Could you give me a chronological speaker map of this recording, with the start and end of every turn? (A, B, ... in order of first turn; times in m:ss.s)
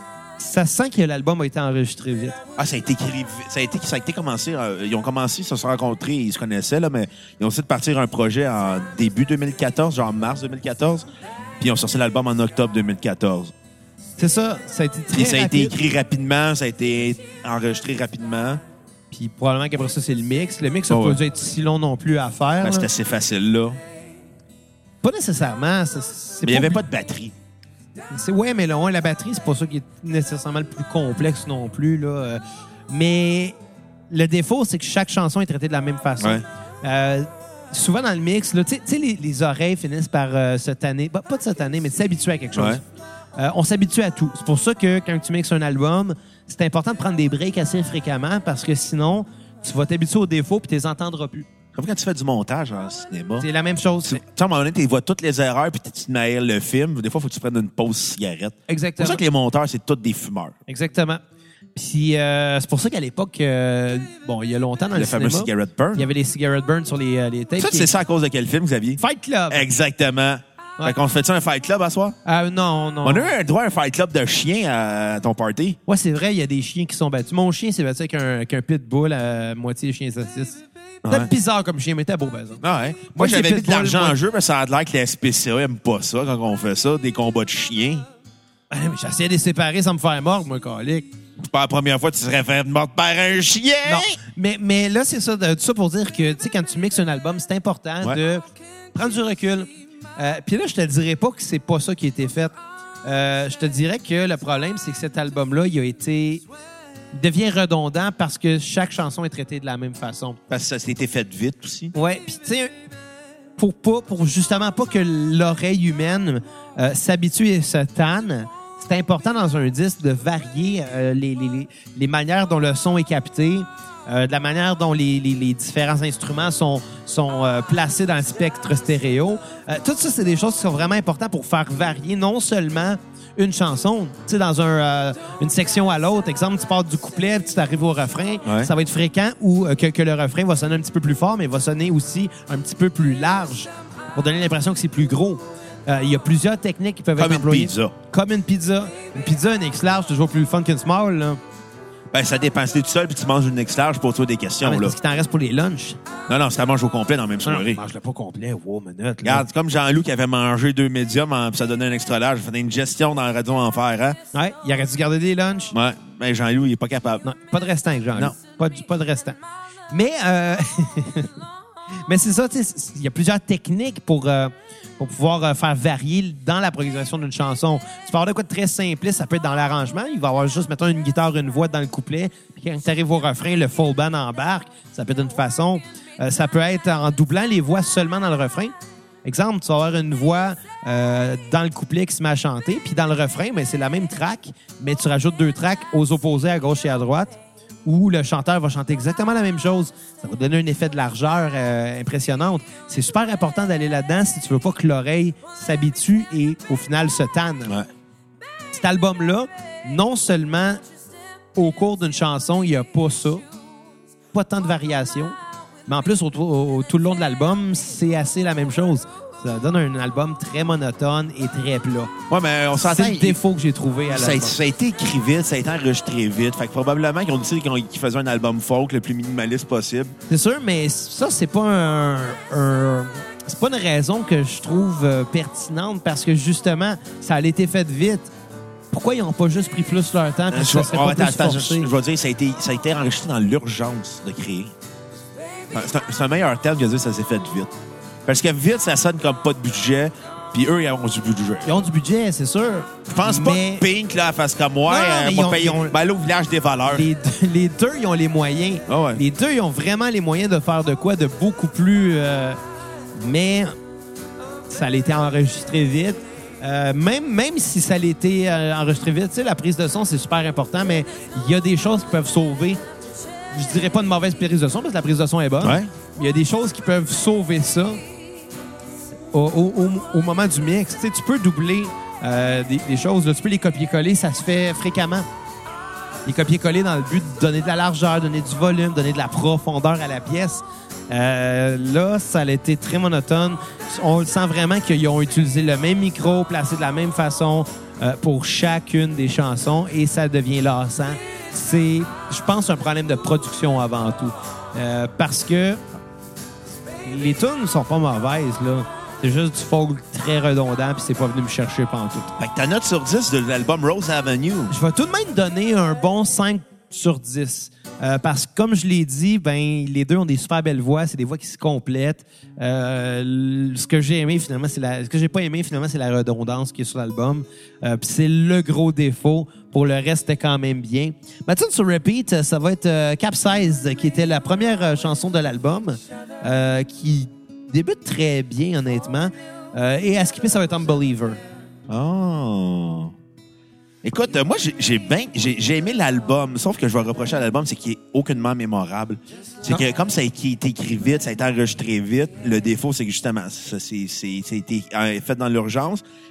0:00.4-0:02.4 A
0:02.6-0:11.1 B
0:11.6-0:13.5 B
0:14.2-0:15.8 A
0:15.1-0:18.6 B
0:19.1-0:22.9 A
0:20.9-0:21.2 B
0:22.6-0:23.8 B
0:25.0-0:26.8 A
0:26.4-0:27.3 B
0:28.1-0:33.6 A
0:34.1-0:42.8 A
0:42.6-0:42.8 B
0:43.4-0:51.5 A
0:51.7-0:53.5 B
0:53.4-0:54.2 A
0:54.1-1:00.6 B
0:58.7-0:59.2 A
1:00.7-1:01.2 A
1:01.8-1:07.9 A
1:04.9-1:06.1 B
1:07.6-1:12.2 B
1:09.0-1:09.7 A
1:12.2-1:13.3 A
1:13.0-1:15.8 B
1:15.9-1:22.6 A
1:21.0-1:21.3 B
1:22.6-1:28.1 B
1:23.1-1:24.2 A
1:28.7-1:31.1 A
1:31.4-1:34.2 B
1:33.8-1:46.4 A
1:47.1-1:50.4 A
1:50.5-1:51.9 B
1:51.9-1:52.7 A
1:53.6-2:31.4 A
2:18.4-2:18.7 B
2:27.2-2:27.9 B
2:32.1-2:35.0 B
2:34.6-2:36.0 A
2:36.3-2:37.8 B
2:37.4-2:39.5 A
2:39.2-2:44.2 B
2:44.3-2:45.8 A
2:45.7-2:47.2 B
2:47.2-2:49.4 A
2:49.9-2:51.4 A
2:52.1-3:27.7 A
3:28.7-3:30.8 A
3:31.6-3:33.4 A
3:34.3-3:35.4 A
3:35.9-3:42.1 A
3:42.3-3:43.4 B
3:42.8-3:44.6 A
3:44.1-3:50.1 B
3:50.3-3:58.3 A
3:58.9-4:01.9 A
4:00.5-4:04.7 B
4:05.7-4:07.7 B
4:08.2-4:11.8 B
4:11.6-4:13.8 A
4:13.1-4:17.1 B
4:14.9-4:16.0 A
4:16.9-4:22.6 A
4:18.9-4:19.2 B
4:23.1-4:23.7 A
4:24.7-4:32.8 A
4:33.5-4:38.0 A
4:35.6-4:35.9 B
4:39.3-4:45.2 A
4:46.2-5:05.8 A
5:07.0-5:12.3 A
5:12.4-5:14.7 B
5:14.7-5:41.4 A
5:41.9-5:43.1 B
5:44.0-5:56.0 B